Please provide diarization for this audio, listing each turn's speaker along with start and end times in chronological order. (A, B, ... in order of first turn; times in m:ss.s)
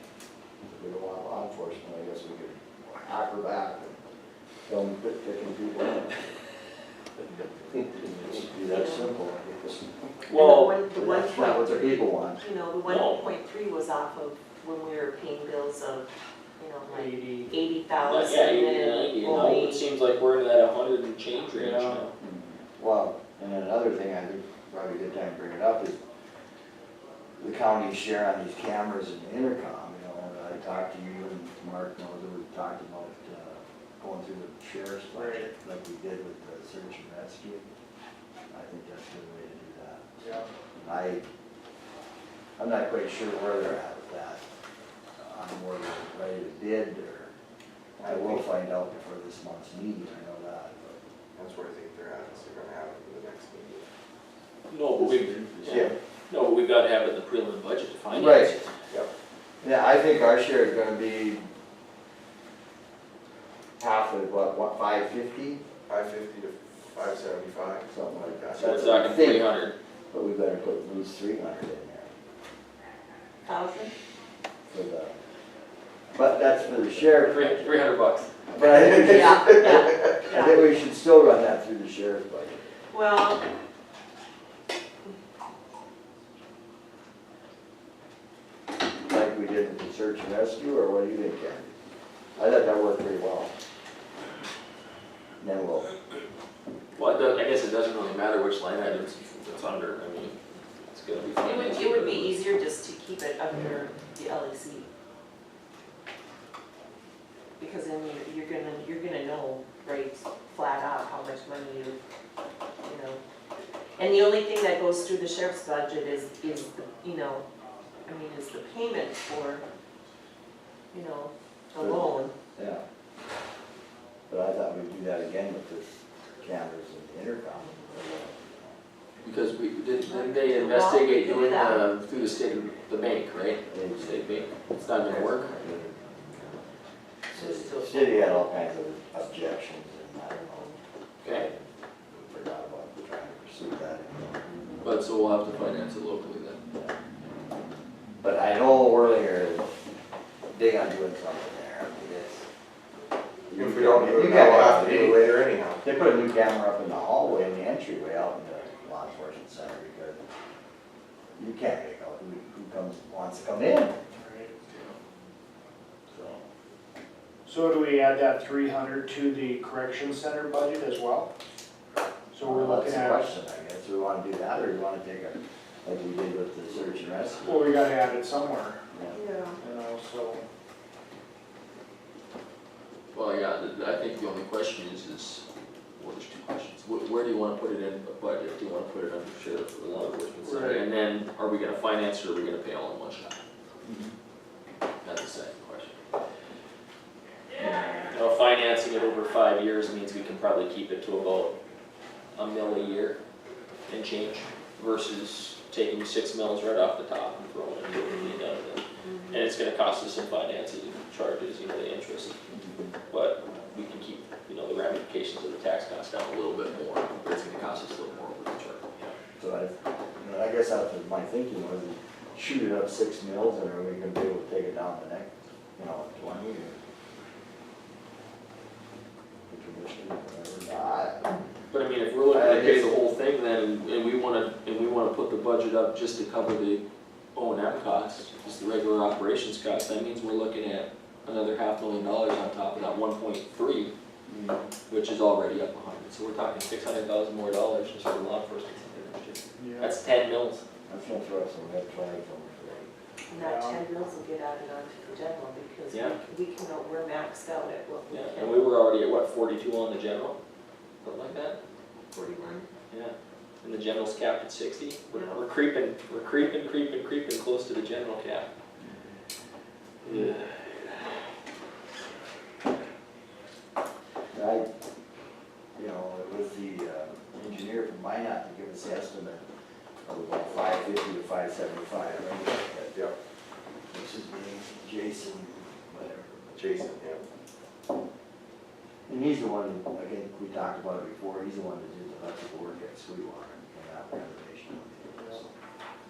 0:00.7-0:04.0 A
0:04.6-0:06.2 A
0:07.8-0:10.0 A
0:08.7-0:09.1 B
0:10.3-0:19.8 B
0:10.3-0:10.8 C
0:10.9-0:12.4 A
0:12.8-0:13.3 C
0:16.9-0:17.5 D
0:18.0-0:22.1 C
0:21.6-0:22.1 D
0:22.2-0:26.0 A
0:27.4-0:37.6 A
0:35.1-0:35.5 D
0:38.5-0:40.1 A
0:40.2-0:40.4 D
0:40.7-0:41.2 A
0:42.6-0:44.4 A
0:45.2-0:47.3 A
0:48.0-0:48.4 E
0:48.0-0:51.0 A
0:51.3-0:53.9 E
0:54.7-0:58.7 C
0:55.0-0:55.9 A
0:55.7-0:55.9 E
0:58.1-0:58.6 A
0:59.6-1:01.4 A
1:03.8-1:05.6 A
1:05.9-1:08.6 E
1:07.9-1:09.5 A
1:08.6-1:09.7 C
1:10.1-1:12.1 A
1:13.4-1:13.9 B
1:14.7-1:15.1 A
1:16.1-1:17.8 A
1:17.0-1:18.3 C
1:18.5-1:22.6 A
1:18.6-1:20.6 B
1:22.9-1:23.4 B
1:29.0-1:31.7 A
1:32.4-1:33.5 A
1:35.4-1:35.9 A
1:37.0-1:40.4 C
1:40.9-1:42.4 C
1:41.4-1:44.9 B
1:47.6-1:52.0 B
1:52.8-1:53.2 B
1:54.0-1:57.4 B
1:58.0-1:59.6 B
2:00.9-2:02.3 B
2:01.8-2:02.8 A
2:04.3-2:08.8 A
2:09.2-2:15.6 C
2:10.0-2:11.8 B
2:13.7-2:14.5 A
2:15.0-2:15.5 B
2:15.4-2:16.1 A
2:17.3-2:21.6 A
2:17.3-2:18.4 B
2:21.2-2:21.5 C
2:22.1-2:24.4 A
2:24.5-2:24.8 B
2:24.8-2:26.6 C
2:28.2-2:29.8 A
2:30.5-2:32.4 A
2:33.5-2:40.2 A
2:33.6-2:35.8 E
2:41.4-2:44.0 A
2:44.2-2:44.5 D
2:44.7-2:45.0 C
2:46.1-2:46.4 A
2:47.4-2:51.3 D
2:52.3-2:53.2 D
2:52.4-2:57.7 A
2:57.4-2:58.8 D
2:59.1-2:59.6 B
2:59.6-3:00.4 D
3:03.1-3:05.4 C
3:06.0-3:13.4 C
3:10.4-3:10.8 D
3:13.8-3:14.1 A
3:15.0-3:16.0 C
3:17.6-3:21.6 C
3:22.3-3:23.2 C
3:23.9-3:32.4 C
3:32.5-3:32.9 A
3:33.1-3:39.2 C
3:39.4-3:46.8 A
3:49.5-3:51.3 A
3:51.7-3:56.8 C
3:52.3-3:52.9 A
3:57.3-4:03.9 C
4:04.3-4:04.6 A
4:04.9-4:10.6 C
4:09.6-4:09.9 D
4:10.9-4:12.9 A
4:13.3-4:18.7 B
4:13.3-4:13.8 D
4:15.9-4:16.2 C
4:18.1-4:20.4 C
4:21.0-4:21.6 C
4:22.1-4:22.6 E
4:22.9-4:28.5 C
4:30.1-4:30.6 C
4:34.3-4:34.7 A
4:35.8-4:39.4 A
4:40.0-4:42.9 A
4:42.9-4:43.1 E
4:43.9-4:46.5 A
4:46.5-4:47.2 E
4:49.1-4:55.5 A